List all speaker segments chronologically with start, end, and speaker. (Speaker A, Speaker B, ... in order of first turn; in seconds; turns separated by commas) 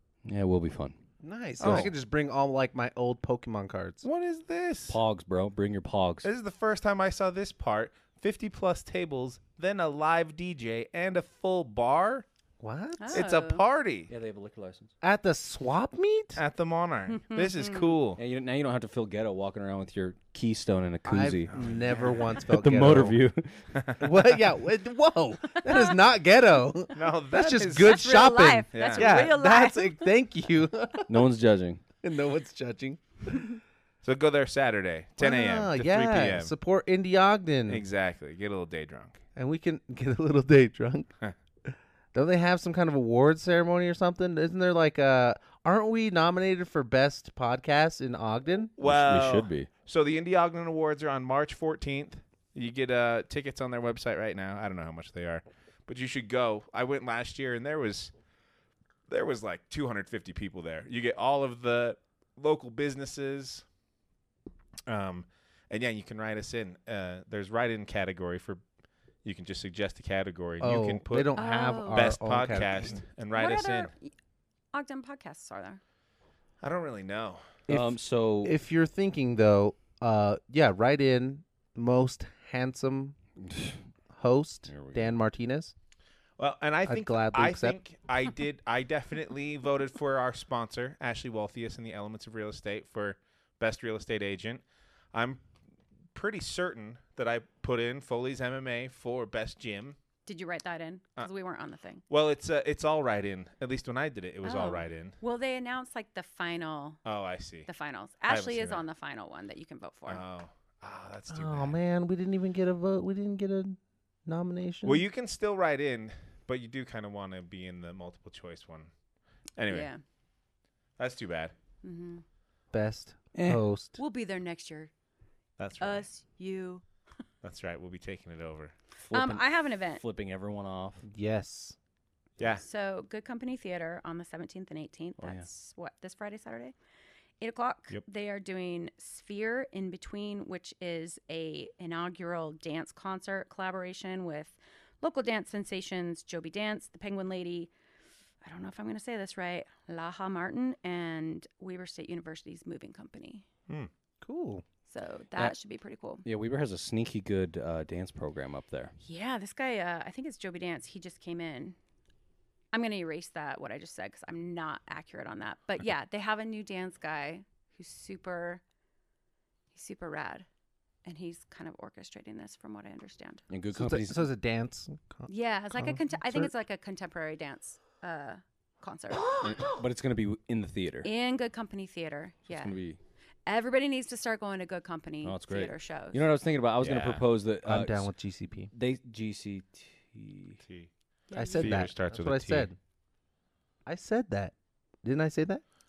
Speaker A: 0.2-1.0, Speaker B: 1.2-4.0, Speaker A: 1.6-1.9, Speaker C: 1.6-1.9, Speaker C: 4.0-5.0, Speaker A: 4.9-6.3, Speaker C: 6.2-12.2, Speaker B: 12.6-13.2, Speaker D: 13.0-13.6, Speaker C: 13.1-14.1, Speaker A: 14.1-14.9, Speaker B: 15.0-16.4, Speaker C: 16.4-18.2, Speaker D: 17.2-17.9, Speaker A: 18.2-21.5, Speaker B: 21.1-23.2, Speaker C: 21.5-22.1, Speaker A: 22.4-23.7, Speaker B: 24.0-31.1, Speaker D: 25.7-26.0, Speaker C: 26.9-28.1, Speaker D: 27.8-30.1, Speaker C: 28.7-29.3, Speaker A: 31.1-31.8, Speaker B: 32.0-33.5, Speaker C: 34.0-36.5, Speaker B: 35.2-37.8, Speaker C: 37.7-39.2, Speaker B: 39.4-41.1, Speaker B: 41.7-48.7, Speaker C: 48.8-58.1, Speaker A: 48.8-49.7, Speaker C: 59.1-63.6, Speaker C: 64.9-68.6, Speaker C: 69.2-71.4, Speaker B: 70.6-73.0, Speaker D: 71.4-72.1, Speaker C: 71.9-73.9, Speaker D: 73.3-74.1, Speaker D: 74.7-75.8, Speaker C: 76.6-77.4, Speaker A: 77.7-78.5, Speaker B: 77.7-83.2, Speaker A: 83.4-83.8, Speaker B: 84.1-85.7, Speaker A: 84.7-85.2, Speaker C: 86.4-94.6, Speaker B: 86.9-87.8, Speaker C: 95.1-95.4, Speaker C: 96.1-100.0, Speaker D: 100.3-102.0, Speaker C: 102.1-105.2, Speaker D: 104.4-107.0, Speaker C: 107.0-107.7, Speaker D: 107.7-110.2, Speaker C: 108.3-108.8, Speaker C: 110.1-111.8, Speaker B: 111.3-115.0, Speaker C: 114.8-118.9, Speaker C: 119.6-119.9, Speaker D: 119.7-120.0, Speaker C: 121.0-121.5, Speaker D: 121.8-122.2, Speaker B: 122.7-124.0, Speaker A: 123.3-123.6, Speaker D: 124.0-124.9, Speaker C: 125.6-126.1, Speaker D: 125.8-126.8, Speaker C: 127.4-128.7, Speaker A: 129.0-131.0, Speaker D: 129.1-130.0, Speaker B: 131.0-131.8, Speaker D: 132.6-136.8, Speaker A: 135.2-135.5, Speaker D: 137.4-147.7, Speaker D: 148.4-153.4, Speaker B: 154.2-154.6, Speaker D: 154.9-156.2, Speaker A: 156.2-158.9, Speaker D: 159.0-161.8, Speaker D: 162.7-168.6, Speaker D: 169.7-170.5, Speaker D: 171.1-173.4, Speaker A: 173.5-174.3, Speaker B: 173.7-176.5, Speaker D: 175.3-179.5, Speaker A: 179.4-181.1, Speaker D: 181.0-182.8, Speaker A: 182.5-183.0, Speaker D: 183.5-186.3, Speaker A: 185.2-188.1, Speaker C: 186.8-187.2, Speaker B: 187.7-188.7, Speaker A: 188.7-190.6, Speaker C: 190.6-190.9, Speaker D: 191.3-191.8, Speaker B: 191.3-192.8, Speaker C: 191.5-192.7, Speaker B: 193.9-195.6